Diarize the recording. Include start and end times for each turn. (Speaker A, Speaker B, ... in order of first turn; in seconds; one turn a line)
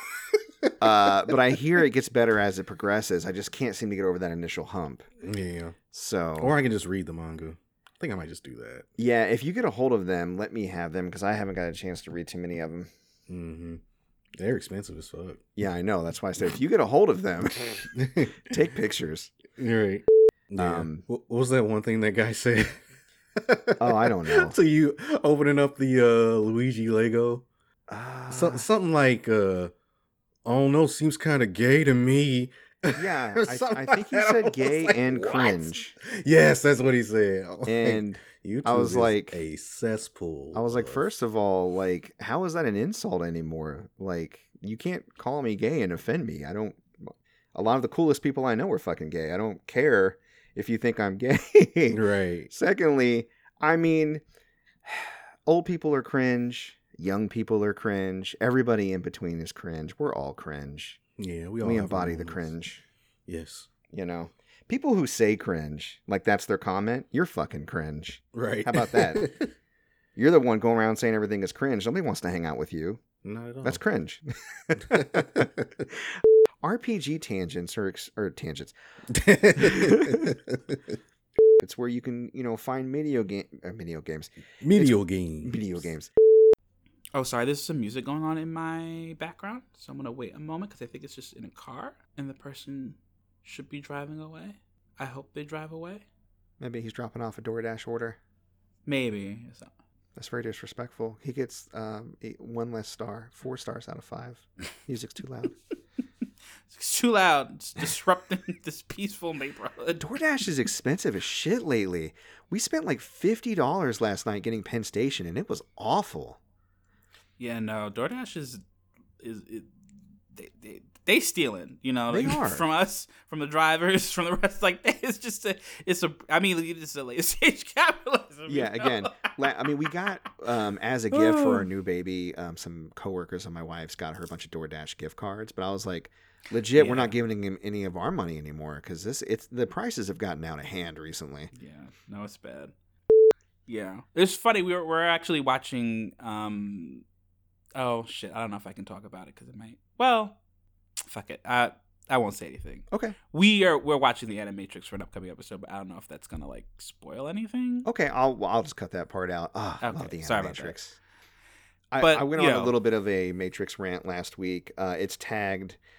Speaker A: 0.8-5.0
Speaker B: 5.2-5.8
Speaker A: 5.9-6.5
Speaker B: 6.4-8.8
Speaker A: 9.0-12.9
Speaker B: 13.3-13.8
Speaker B: 14.3-15.4
Speaker A: 15.6-19.3
Speaker B: 17.9-18.4
Speaker B: 19.6-22.8
Speaker A: 20.6-21.1
Speaker B: 23.4-27.4
Speaker A: 23.8-24.6
Speaker A: 27.9-28.6
Speaker B: 28.3-29.7
Speaker B: 30.4-41.0
Speaker A: 32.9-35.9
Speaker A: 37.6-39.4
Speaker A: 40.5-54.2
Speaker B: 51.9-52.5
Speaker A: 54.8-61.0
Speaker B: 61.2-62.5
Speaker A: 61.6-62.8
Speaker B: 63.3-63.7
Speaker A: 63.9-69.3
Speaker B: 68.3-69.5
Speaker A: 70.2-73.0
Speaker B: 73.2-73.8
Speaker A: 73.6-75.6
Speaker B: 74.9-75.4
Speaker A: 76.6-78.7
Speaker B: 79.1-80.8
Speaker A: 79.6-80.3
Speaker A: 81.6-86.1
Speaker B: 84.6-85.6
Speaker C: 87.1-96.0
Speaker A: 96.6-98.2
Speaker C: 98.8-99.7
Speaker A: 100.2-105.5
Speaker C: 106.7-110.0
Speaker A: 110.0-116.4
Speaker C: 117.4-118.6
Speaker C: 119.2-119.7
Speaker C: 120.3-129.4
Speaker A: 122.1-122.6
Speaker A: 128.5-141.5
Speaker C: 136.7-137.2
Speaker C: 141.5-142.7
Speaker C: 143.7-147.0
Speaker C: 147.8-150.4
Speaker C: 151.1-157.9
Speaker A: 152.9-153.2
Speaker A: 157.8-160.9
Speaker C: 159.8-160.8
Speaker A: 161.9-165.8
Speaker C: 162.0-162.7